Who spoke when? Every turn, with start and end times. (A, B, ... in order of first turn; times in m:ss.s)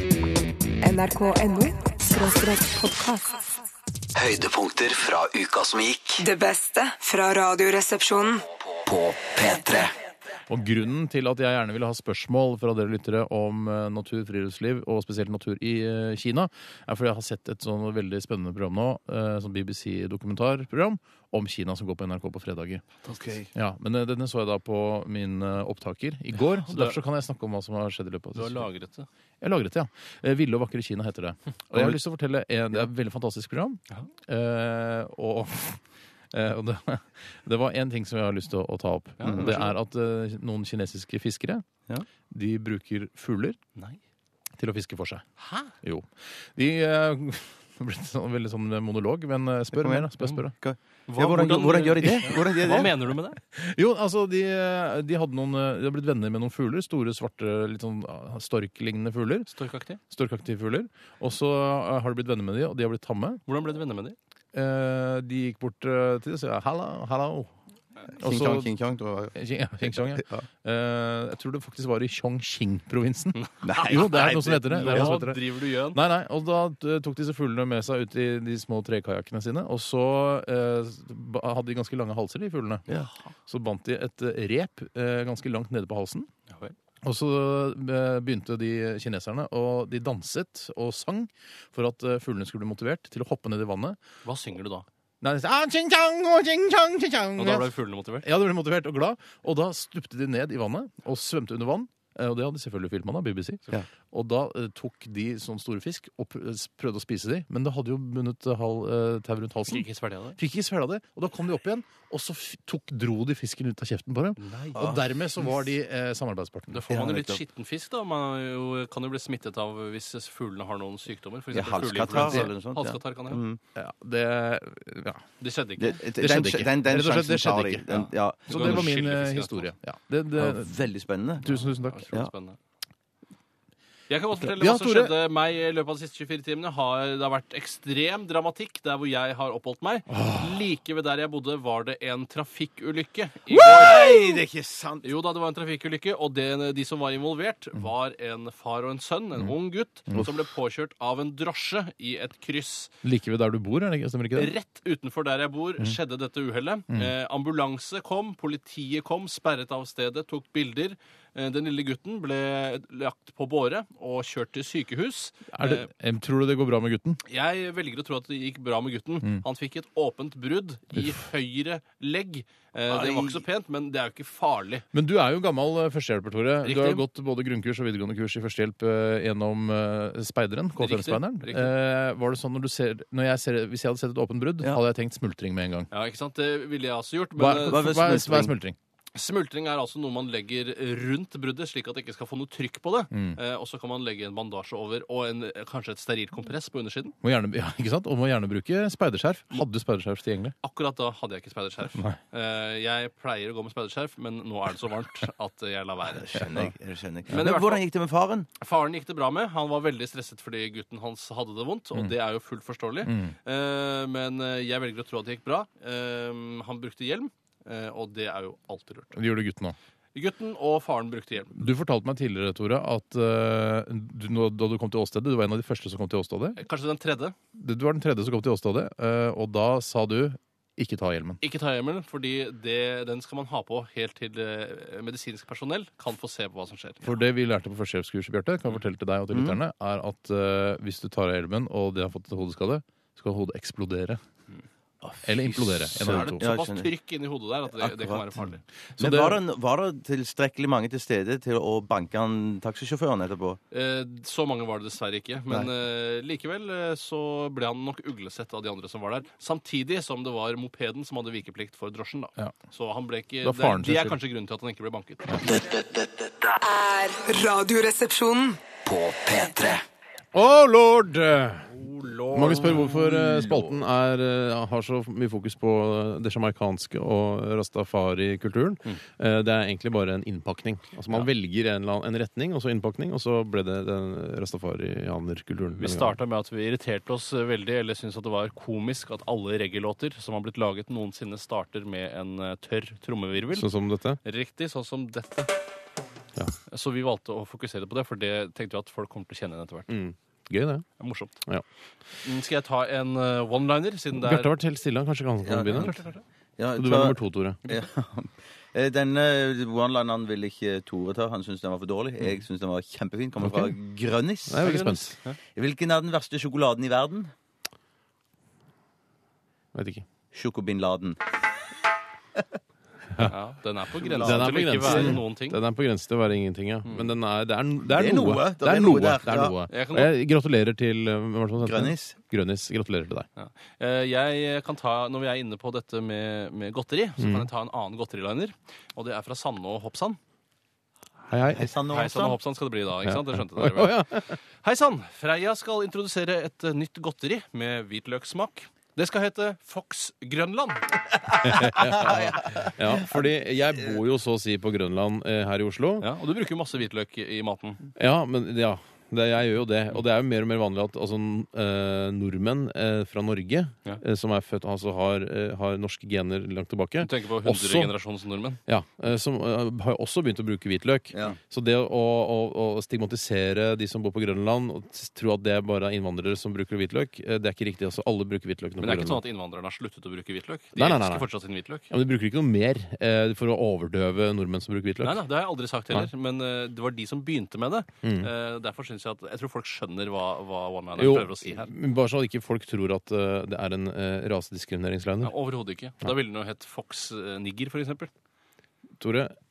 0:00.8-0:03.5 A
0:04.2-0:06.2 B
0:06.2-0:08.4 A
0:08.8-0:09.9 B
0:10.5-0:22.8 C
0:23.1-0:23.5 D
0:23.5-0:28.7 C
0:26.4-0:27.0 E
0:28.4-0:29.1 E
0:29.4-0:35.8 C
0:36.3-0:41.6 C
0:39.2-0:39.7 E
0:39.2-0:39.6 D
0:42.3-0:43.6 C
0:44.6-0:45.2 C
0:45.4-0:45.7 E
0:45.8-0:50.5 C
0:49.8-0:53.0 D
0:51.1-0:53.4 E
0:52.0-0:52.9 C
0:53.5-0:59.5 C
0:59.5-1:00.0 E
1:00.1-1:03.4 C
1:03.5-1:04.2 E
1:04.5-1:07.5 C
1:08.2-1:08.7 C
1:08.2-1:10.4 D
1:09.4-1:22.9 C
1:13.4-1:16.0 E
1:13.6-1:15.2 D
1:23.5-1:26.3 C
1:27.0-1:34.0 C
1:34.2-1:34.9 E
1:35.2-1:37.7 C
1:37.4-1:38.3 E
1:38.2-1:43.6 C
1:44.1-1:56.8 C
1:49.7-1:50.4 E
1:54.4-1:54.9 E
1:56.7-2:03.4 E
1:56.9-1:57.4 D
2:01.5-2:03.6 D
2:02.2-2:02.5 C
2:03.8-2:05.2 C
2:05.4-2:06.0 E
2:05.8-2:08.9 D
2:06.2-2:10.9 C
2:08.5-2:09.7 E
2:10.4-2:11.4 D
2:11.4-2:12.1 C
2:11.6-2:12.6 E
2:14.1-2:24.1 E
2:14.4-2:15.1 C
2:20.1-2:20.6 C
2:23.5-2:25.1 D
2:23.6-2:24.4 C
2:25.0-2:32.9 E
2:33.0-2:34.5 C
2:34.4-2:45.9 E
2:45.5-2:47.2 C
2:47.3-2:54.9 E
2:50.9-2:51.2 C
2:52.9-2:53.4 D
2:54.9-3:05.9 C
2:56.6-2:57.0 E
3:00.8-3:01.7 E
3:05.9-3:07.8 E
3:07.4-3:08.8 C
3:07.7-3:08.6 D
3:09.2-3:17.2 E
3:13.1-3:13.4 C
3:17.2-3:20.6 C
3:20.6-3:26.5 E
3:26.2-3:28.5 D
3:27.3-3:27.6 C
3:27.3-3:27.8 E
3:28.6-3:39.2 E
3:33.0-3:33.3 C
3:39.1-3:39.8 C
3:40.2-3:41.6 E
3:41.6-3:46.6 C
3:46.6-3:47.4 E
3:47.5-3:51.4 C
3:51.4-3:57.1 E
3:57.0-4:04.2 C
3:59.3-3:59.6 D
4:05.2-4:06.4 C
4:05.5-4:08.6 E
4:05.9-4:06.9 D
4:07.7-4:08.4 D
4:09.0-4:09.4 C
4:09.0-4:13.6 D
4:13.7-4:25.4 E
4:23.4-4:24.2 C
4:25.4-4:26.5 B
4:26.6-4:28.6 A
4:28.8-4:29.8 B
4:30.3-4:31.7 C
4:31.7-4:33.6 E
4:32.3-4:46.2 C
4:45.8-4:53.7 E
4:53.5-4:54.2 C
4:54.2-4:55.5 E
4:56.7-4:59.9 E
4:59.9-5:00.9 C
5:01.0-5:01.4 E
5:02.2-5:04.5 E
5:04.1-5:06.0 C
5:05.4-5:06.1 D
5:05.7-5:06.2 E
5:06.6-5:14.9 D
5:06.8-5:07.6 C
5:13.4-5:13.8 C
5:14.5-5:15.2 C
5:14.6-5:15.4 E
5:15.6-5:17.3 D
5:19.7-5:20.0 C
5:20.3-5:21.2 D
5:23.2-5:25.6 E
5:24.0-5:25.2 D
5:24.2-5:33.3 C
5:26.8-5:27.1 E
5:27.9-5:29.6 D
5:29.7-5:30.1 E
5:31.6-5:32.2 D
5:33.4-5:40.2 E
5:37.2-5:37.5 C
5:41.3-5:41.7 C
5:41.6-5:42.4 D
5:41.9-5:50.9 E
5:43.0-5:44.4 C
5:51.4-5:56.1 C
5:51.8-5:53.0 D
5:56.0-5:57.9 E
5:58.0-6:07.9 C
6:07.0-6:08.6 E
6:08.7-6:19.2 C
6:18.8-6:21.9 E
6:20.8-6:21.3 C
6:21.9-6:25.2 C
6:25.0-6:31.7 E
6:28.0-6:28.3 C
6:31.0-6:35.3 C
6:35.2-6:38.1 E
6:39.0-6:39.3 C